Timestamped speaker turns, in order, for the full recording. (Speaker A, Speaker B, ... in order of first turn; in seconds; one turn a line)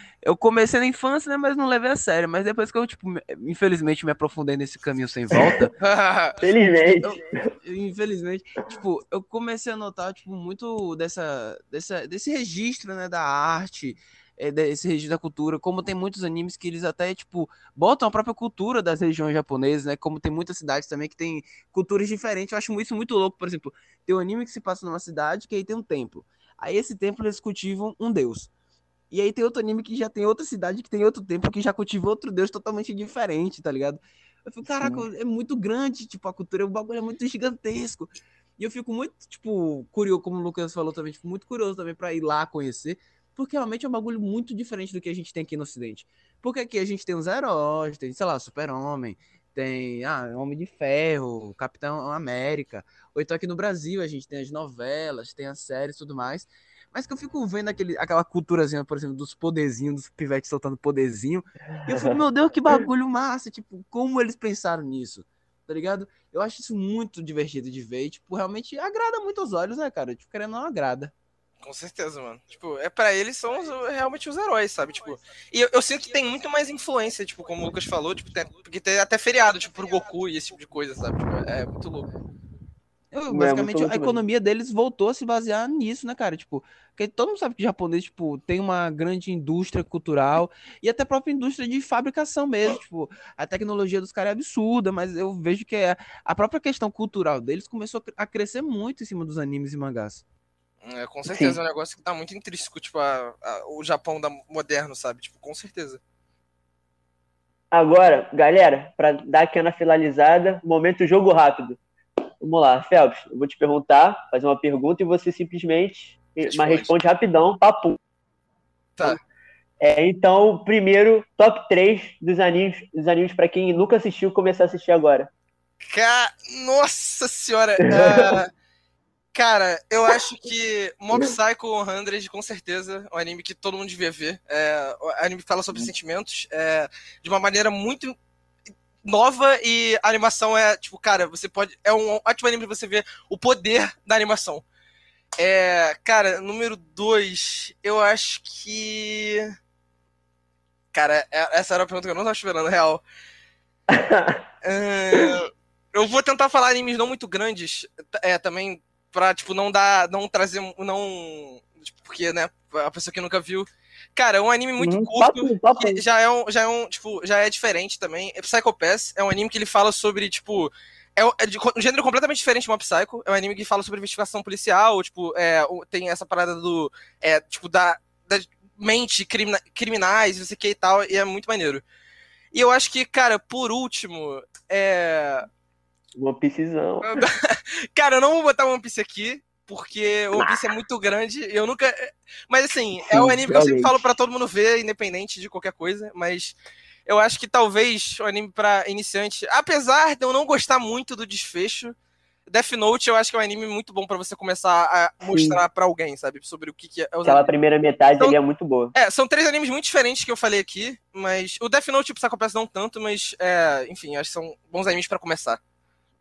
Speaker A: 0.2-5.7
Speaker B: 5.8-6.4
Speaker C: 6.4-7.3
Speaker A: 7.0-28.5
Speaker A: 29.1-71.1
Speaker C: 34.7-35.0
Speaker C: 61.9-62.2
Speaker B: 71.6-82.1
Speaker A: 83.1-100.2
Speaker C: 83.3-84.2
Speaker B: 100.8-106.0
Speaker C: 101.2-101.6
Speaker C: 107.7-111.8
Speaker C: 112.4-118.0
Speaker B: 116.4-116.9
Speaker C: 119.8-125.3
Speaker B: 125.9-128.5
Speaker C: 127.9-128.2
Speaker B: 129.3-138.1
Speaker B: 139.0-144.6
Speaker B: 145.4-149.5
Speaker B: 150.9-153.0
Speaker C: 153.9-154.4
Speaker B: 154.6-181.8
Speaker C: 164.8-166.0
Speaker B: 182.5-185.5
Speaker C: 186.2-187.2
Speaker B: 187.0-201.9
Speaker C: 190.3-190.7
Speaker C: 193.1-194.1
Speaker B: 202.5-207.5
Speaker C: 205.2-205.6
Speaker C: 207.2-208.9
Speaker B: 208.9-215.6